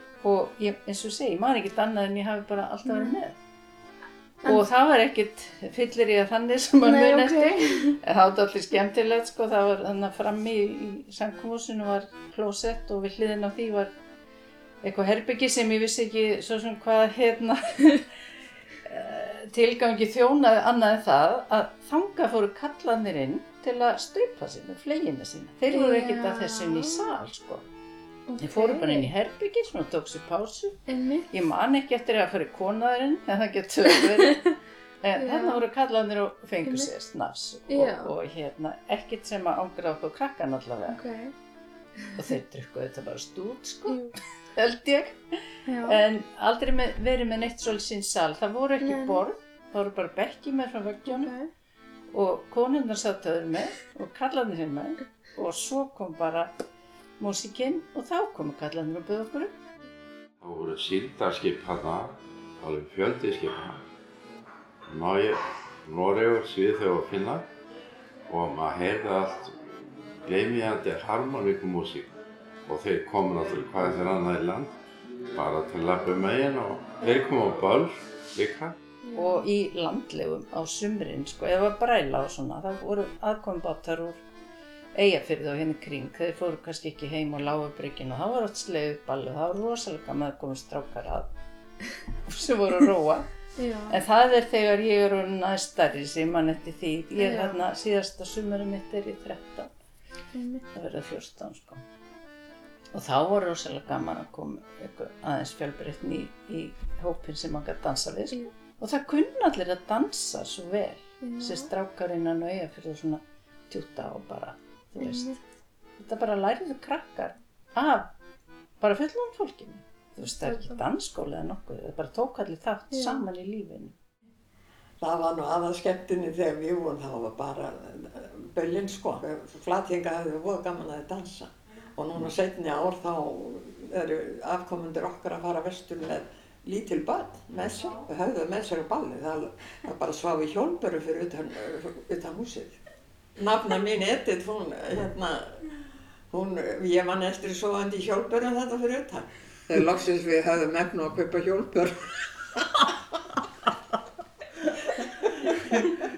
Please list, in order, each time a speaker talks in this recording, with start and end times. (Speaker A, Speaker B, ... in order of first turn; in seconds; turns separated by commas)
Speaker A: 0.2-3.3, Speaker B: 2.9-3.2, Speaker B: 4.4-4.7, Speaker A: 4.4-13.9, Speaker B: 6.8-8.0, Speaker A: 14.8-18.0, Speaker A: 18.8-27.6, Speaker B: 25.7-27.1, Speaker B: 28.3-29.1, Speaker A: 28.4-30.8, Speaker B: 30.9-31.3, Speaker A: 31.3-34.4, Speaker A: 35.0-41.0, Speaker B: 35.2-35.6, Speaker B: 37.7-38.1, Speaker B: 40.9-41.3, Speaker A: 42.1-45.1, Speaker B: 43.9-44.1, Speaker B: 45.7-46.0, Speaker A: 45.8-51.3, Speaker B: 48.8-49.2, Speaker B: 51.0-51.5, Speaker A: 52.1-56.5, Speaker A: 57.2-59.5, Speaker C: 60.4-63.8, Speaker C: 64.9-67.5, Speaker C: 68.3-69.5, Speaker C: 70.2-72.1, Speaker C: 72.7-74.7, Speaker C: 75.3-78.8, Speaker B: 79.0-79.5, Speaker A: 79.1-84.2, Speaker A: 84.9-91.3, Speaker A: 92.2-93.2, Speaker B: 93.6-94.0, Speaker A: 93.9-99.7, Speaker B: 97.2-97.6, Speaker B: 100.3-100.6, Speaker A: 100.7-101.8, Speaker A: 102.9-115.3, Speaker B: 111.2-111.7, Speaker B: 115.0-115.4, Speaker A: 116.0-118.1, Speaker A: 118.8-124.0, Speaker B: 120.3-120.8, Speaker B: 122.9-123.2, Speaker D: 125.0-142.8, Speaker D: 143.4-145.6, Speaker D: 146.3-152.1